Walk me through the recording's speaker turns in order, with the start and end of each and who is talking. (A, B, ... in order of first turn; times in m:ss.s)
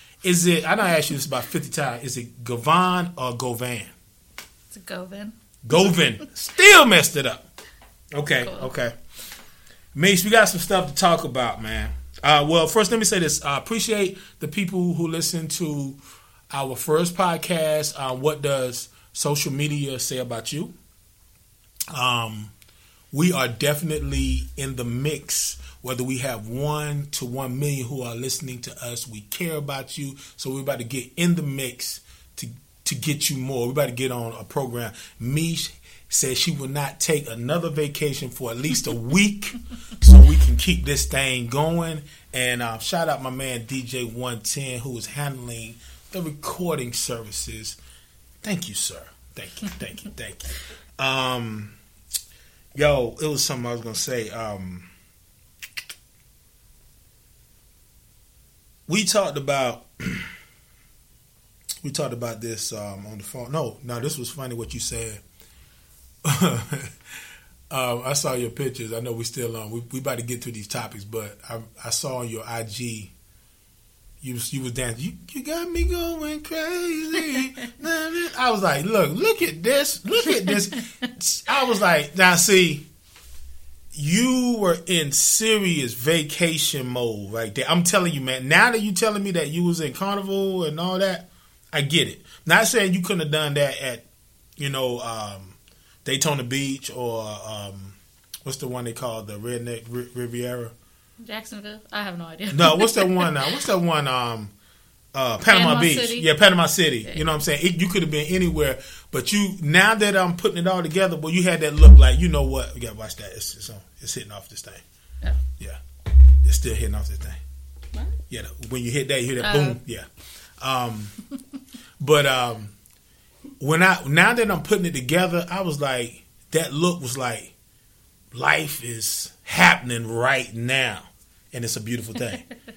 0:00.2-0:03.9 A
0:04.7-0:06.0 B
0:05.6-0:07.4 A
0:08.1-0:08.9 A
0:08.4-0:08.7 B
0:09.9-0:16.0 A
0:16.5-0:20.7 A
0:21.9-0:22.5 A
0:23.1-0:47.8 A
0:48.4-0:51.8 A
0:52.7-0:54.9 A
0:58.9-1:00.3 A
1:01.8-1:05.2 A
1:06.2-1:06.9 A
1:07.7-1:13.1 A
1:14.2-1:22.8 A
1:20.4-1:21.1 B
1:23.9-1:34.0 A
1:34.6-1:40.7 A
1:41.2-1:43.5 B
1:42.5-1:44.5 A
1:45.1-1:54.8 A
1:45.4-1:46.3 B
1:56.4-1:57.4 A
1:58.3-2:00.0 A
1:59.4-1:59.8 B
2:00.6-2:01.2 A
2:02.0-2:02.7 A
2:03.6-2:07.5 A
2:08.3-2:12.4 A